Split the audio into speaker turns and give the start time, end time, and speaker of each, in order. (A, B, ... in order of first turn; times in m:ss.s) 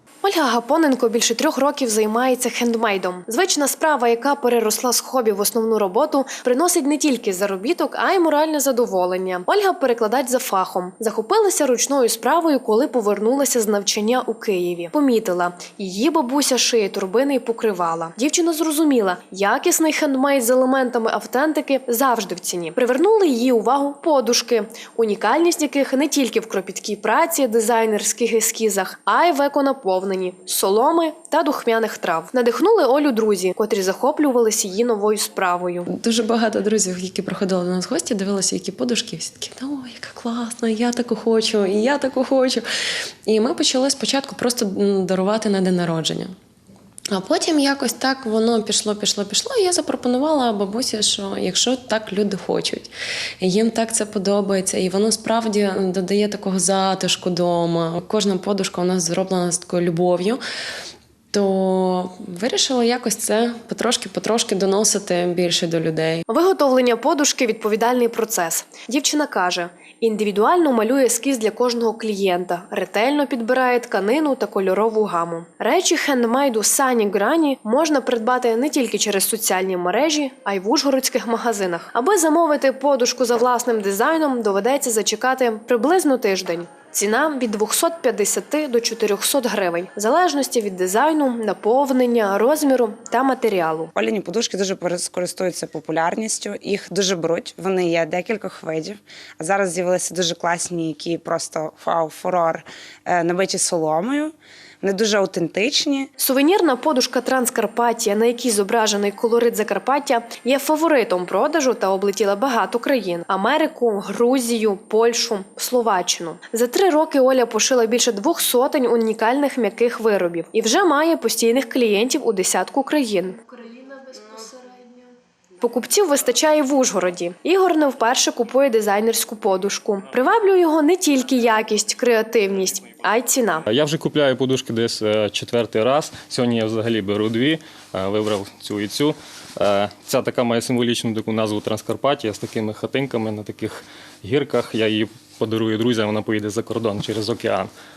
0:00.2-0:35.9 A
0:35.9-0:42.7 B
0:43.3-0:46.4 B
0:47.1-1:00.4 B
1:01.3-1:06.2 B
1:06.3-1:33.9 A
1:34.0-1:46.0 C
1:46.2-2:04.5 A
2:05.6-2:13.6 A
2:13.7-2:27.7 D